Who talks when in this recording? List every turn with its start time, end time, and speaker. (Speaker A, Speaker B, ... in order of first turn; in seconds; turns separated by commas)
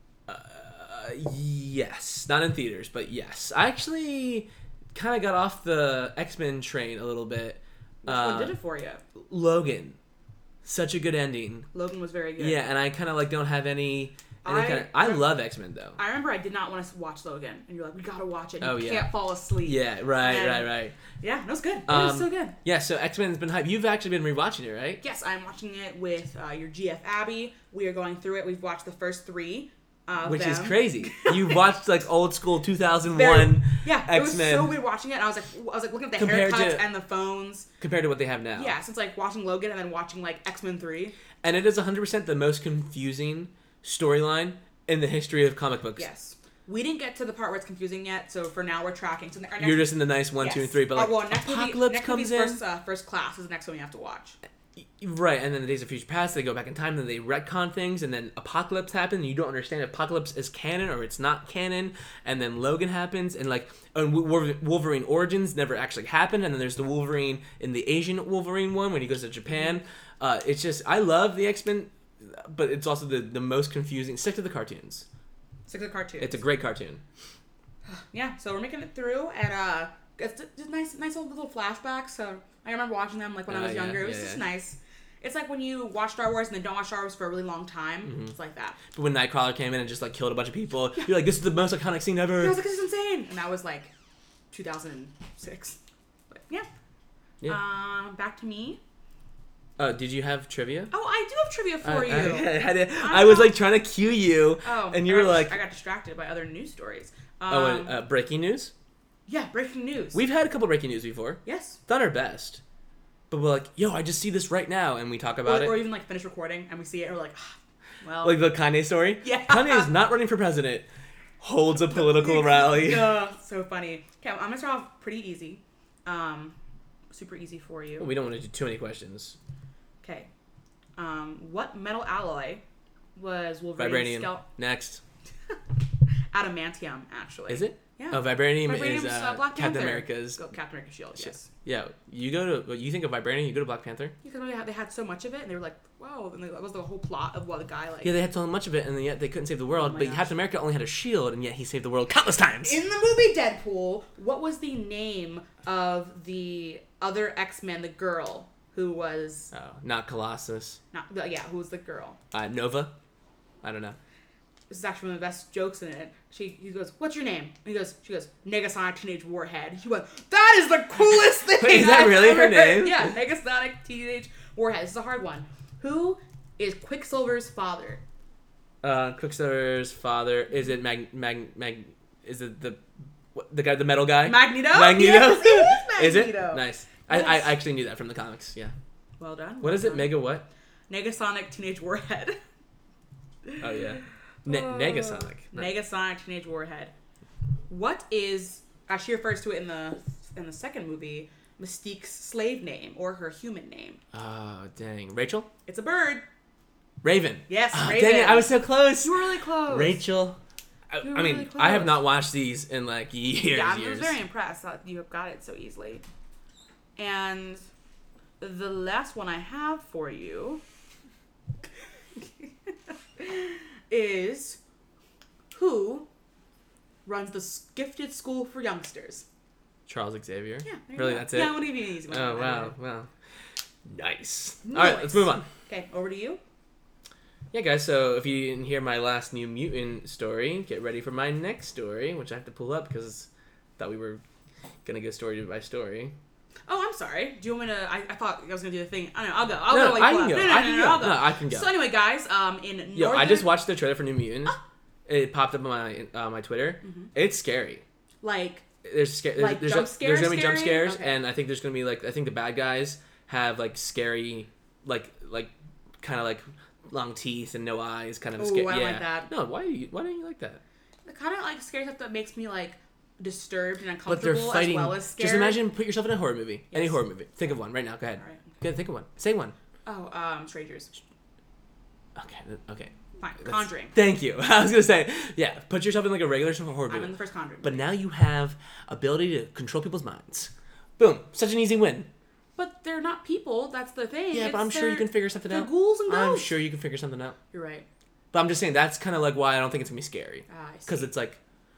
Speaker A: 0.3-8.6, Speaker B: 8.0-9.0, Speaker A: 9.2-10.0, Speaker A: 10.6-11.7, Speaker B: 11.7-12.6, Speaker A: 12.4-16.0, Speaker B: 14.4-15.4, Speaker B: 16.0-22.6, Speaker A: 18.6-21.0, Speaker A: 21.9-25.0, Speaker B: 25.0-31.6, Speaker A: 30.2-34.8, Speaker B: 33.1-37.7, Speaker A: 36.2-36.9, Speaker A: 37.8-38.8, Speaker B: 38.5-41.1, Speaker A: 41.4-46.1, Speaker B: 46.0-54.4, Speaker A: 49.6-52.6, Speaker A: 54.8-75.1, Speaker B: 69.5-69.8, Speaker B: 75.7-76.4, Speaker A: 76.2-77.0, Speaker B: 77.9-88.8, Speaker A: 83.5-84.4, Speaker A: 88.1-88.3, Speaker A: 88.9-92.6, Speaker B: 92.4-93.9, Speaker B: 94.5-95.8, Speaker B: 96.3-96.7, Speaker B: 97.5-98.8, Speaker A: 99.8-100.9, Speaker B: 100.9-103.5, Speaker A: 101.8-105.6, Speaker B: 104.6-108.0, Speaker A: 107.5-108.7, Speaker B: 109.3-110.2, Speaker A: 110.1-112.6, Speaker B: 111.5-111.8, Speaker A: 113.3-115.8, Speaker B: 115.5-118.4, Speaker A: 118.2-120.9, Speaker B: 119.2-119.9, Speaker A: 121.4-123.2, Speaker B: 121.8-126.6, Speaker B: 127.1-128.1, Speaker A: 128.0-129.4, Speaker B: 130.0-130.3, Speaker B: 131.0-132.6, Speaker B: 133.2-134.5, Speaker A: 133.8-135.0, Speaker B: 136.3-141.5, Speaker A: 137.5-140.4, Speaker A: 141.2-144.2, Speaker B: 144.2-148.1, Speaker A: 148.0-152.8, Speaker B: 149.7-150.3, Speaker B: 152.6-159.5, Speaker A: 159.5-160.8, Speaker B: 160.9-162.2, Speaker A: 162.3-162.9, Speaker A: 163.6-164.0, Speaker B: 164.7-178.0, Speaker A: 171.2-173.1, Speaker A: 178.8-182.8, Speaker A: 183.3-188.7, Speaker B: 184.2-187.6, Speaker B: 189.2-190.2, Speaker A: 189.6-190.5, Speaker B: 190.9-192.4, Speaker B: 193.5-193.9, Speaker A: 193.6-195.8, Speaker B: 194.5-196.9, Speaker B: 197.7-204.0, Speaker A: 204.1-205.5, Speaker B: 205.7-206.2, Speaker A: 207.0-210.4, Speaker B: 207.5-210.1, Speaker A: 210.9-214.2, Speaker B: 211.0-212.0, Speaker B: 213.5-216.0, Speaker B: 217.0-217.6, Speaker B: 218.4-220.6, Speaker B: 223.2-224.6, Speaker B: 225.5-226.1, Speaker B: 227.1-229.2, Speaker A: 229.9-233.1, Speaker B: 230.6-232.8, Speaker A: 233.9-235.5, Speaker B: 234.6-236.4, Speaker A: 237.5-244.2, Speaker A: 244.8-246.1, Speaker B: 246.7-253.6, Speaker A: 249.7-251.7, Speaker A: 252.9-257.8, Speaker B: 256.8-257.1, Speaker B: 258.2-258.7, Speaker A: 258.8-270.6, Speaker B: 259.4-261.2, Speaker B: 268.4-269.3, Speaker B: 271.1-275.6, Speaker A: 274.1-279.6, Speaker B: 276.7-277.0, Speaker B: 278.2-278.6, Speaker B: 279.9-280.9, Speaker A: 282.1-282.9, Speaker B: 283.2-283.9, Speaker A: 283.4-292.1, Speaker B: 286.9-287.9, Speaker B: 292.6-296.6, Speaker A: 294.3-297.4, Speaker B: 297.5-297.9, Speaker A: 298.3-301.4, Speaker B: 300.5-301.1